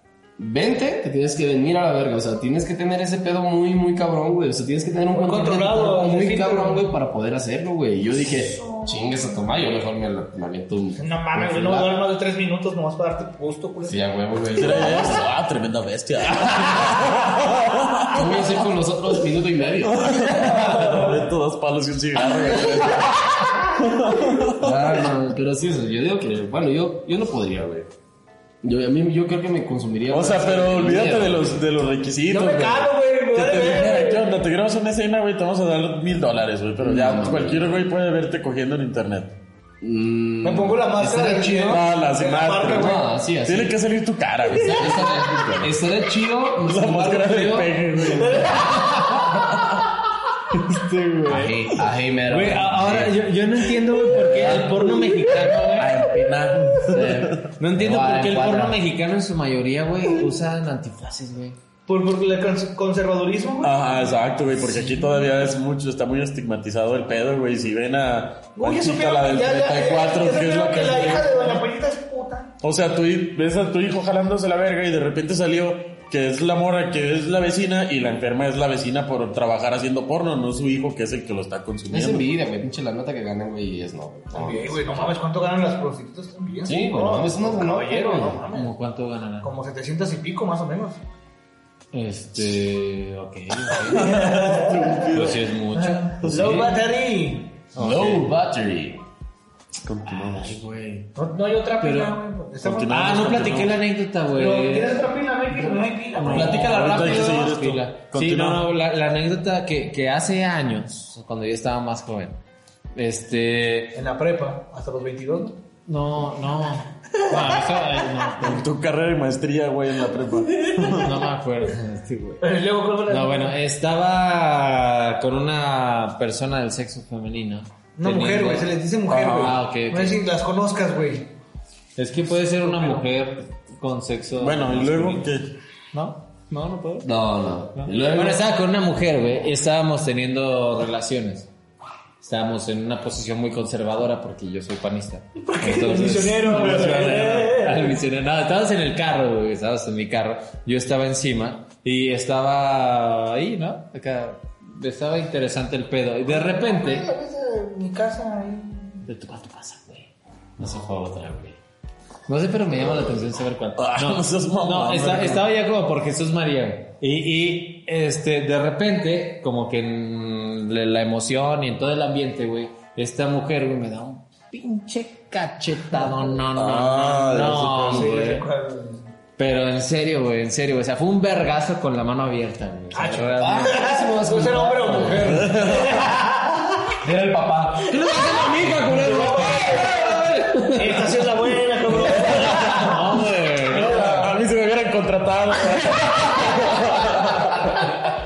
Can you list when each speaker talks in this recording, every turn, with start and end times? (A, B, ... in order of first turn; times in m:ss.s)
0:00.4-0:12.0 A
0:05.1-0:06.8 B
0:08.5-0:09.0 B
0:11.0-0:14.0 B
0:13.9-0:15.2 A
0:14.5-0:18.5 C
0:14.6-0:15.1 B
0:18.1-0:20.9 A
0:19.8-0:24.8 C
0:20.6-0:21.1 B
0:24.6-0:27.9 A
0:28.6-0:31.6 A
0:30.1-0:39.3 C
0:32.3-0:34.3 B
0:36.8-0:37.8 A
0:39.8-0:41.8 A
0:40.4-0:43.0 B
0:41.7-0:45.1 C
0:42.7-0:43.7 A
0:44.5-0:47.7 A
0:45.6-0:46.2 D
0:46.6-0:49.7 C
0:48.0-0:49.2 B
0:50.6-0:56.0 D
0:51.2-0:53.2 A
0:54.3-0:55.8 B
0:55.5-0:57.5 C
0:56.7-1:01.6 D
0:57.6-0:58.8 A
1:01.9-1:04.1 B
1:03.6-1:11.6 C
1:08.6-1:12.5 B
1:12.6-1:22.3 C
1:21.9-1:25.1 A
1:24.3-1:28.7 B
1:26.6-1:28.4 A
1:28.5-1:29.5 D
1:29.4-1:31.0 B
1:31.9-1:34.3 D
1:33.8-1:35.5 C
1:33.9-1:35.1 B
1:35.1-1:36.7 D
1:35.7-1:37.6 B
1:36.2-1:36.7 C
1:37.7-1:38.2 D
1:37.8-1:39.0 A
1:39.8-1:40.6 C
1:40.0-1:41.1 D
1:41.1-1:43.4 B
1:41.8-1:42.2 D
1:42.6-1:43.8 C
1:42.9-1:52.4 D
1:44.3-1:46.8 B
1:46.2-1:48.6 C
1:46.2-1:47.5 A
1:53.0-1:54.0 D
1:53.9-1:55.6 B
1:55.8-1:58.7 D
1:57.2-1:57.7 B
1:58.4-2:01.2 C
2:00.8-2:02.4 D
2:02.4-2:03.5 B
2:03.1-2:10.2 D
2:08.0-2:11.3 B
2:09.1-2:09.6 C
2:12.0-2:15.2 D
2:12.6-2:13.0 B
2:14.4-2:15.5 C
2:15.9-2:17.1 D
2:17.0-2:18.4 A
2:17.7-2:21.5 D
2:22.2-2:37.1 D
2:25.4-2:28.0 B
2:36.3-2:39.0 B
2:39.0-2:40.1 D
2:40.6-2:41.5 A
2:42.3-2:58.4 D
2:43.8-2:45.4 C
2:56.5-2:57.9 C
2:57.5-2:58.1 A
2:57.8-2:59.0 B
2:59.4-3:03.8 D
3:02.9-3:06.7 B
3:03.0-3:05.5 A
3:04.9-3:05.2 D
3:05.2-3:06.1 C
3:07.0-3:11.2 D
3:07.8-3:08.9 A
3:08.9-3:13.1 B
3:11.9-3:12.7 C
3:12.1-3:14.3 D
3:13.7-3:17.8 C
3:15.8-3:17.1 D